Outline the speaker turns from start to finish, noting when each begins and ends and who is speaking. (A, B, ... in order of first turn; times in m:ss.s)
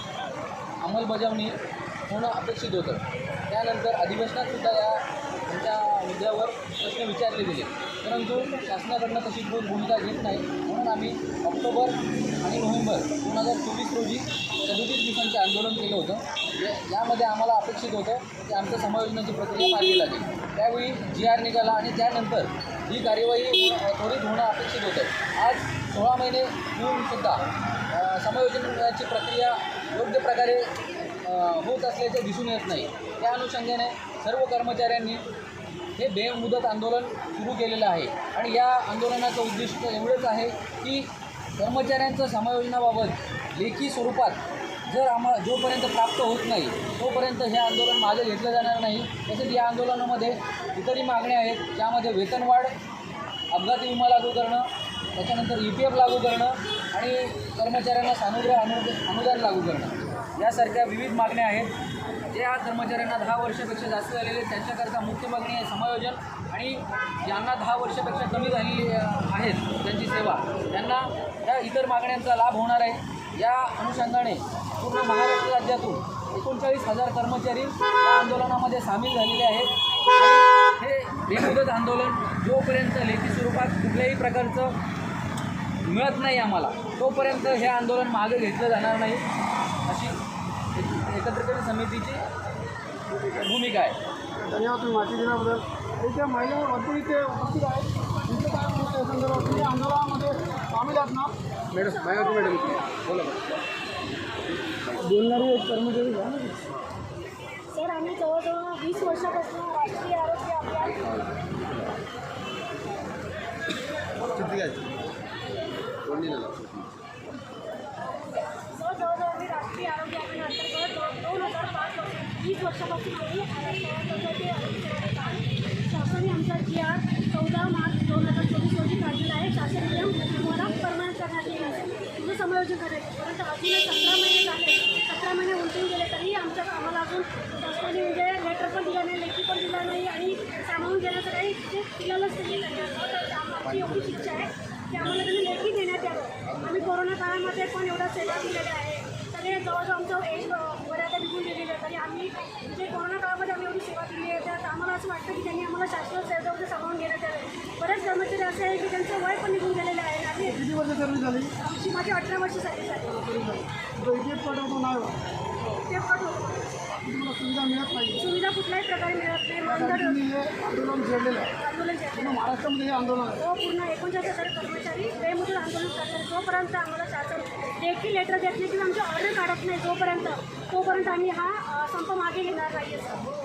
0:00.8-0:35.2 A
0:36.0-0:52.7 A
0:53.5-1:01.7 A
1:02.3-1:24.8 A
1:25.8-1:29.2 A
1:29.8-1:30.2 A
1:30.7-1:32.2 A
1:33.1-1:34.0 A
1:34.4-1:41.3 B
1:41.7-1:43.6 C
1:42.0-1:42.8 D
1:45.0-1:46.6 B
1:47.7-1:51.0 D
1:50.9-1:52.0 C
1:54.3-1:54.8 C
1:56.0-1:57.0 C
1:58.6-2:40.6 D
2:23.7-2:24.2 C
2:26.5-2:26.8 C
2:40.4-2:41.5 B
2:41.6-2:43.3 D
2:43.2-2:45.2 B
2:45.7-2:46.8 D
2:46.9-2:48.2 B
2:48.2-2:50.2 D
2:49.6-2:51.5 B
2:51.6-2:52.4 D
2:52.2-2:53.4 B
2:53.4-3:03.2 D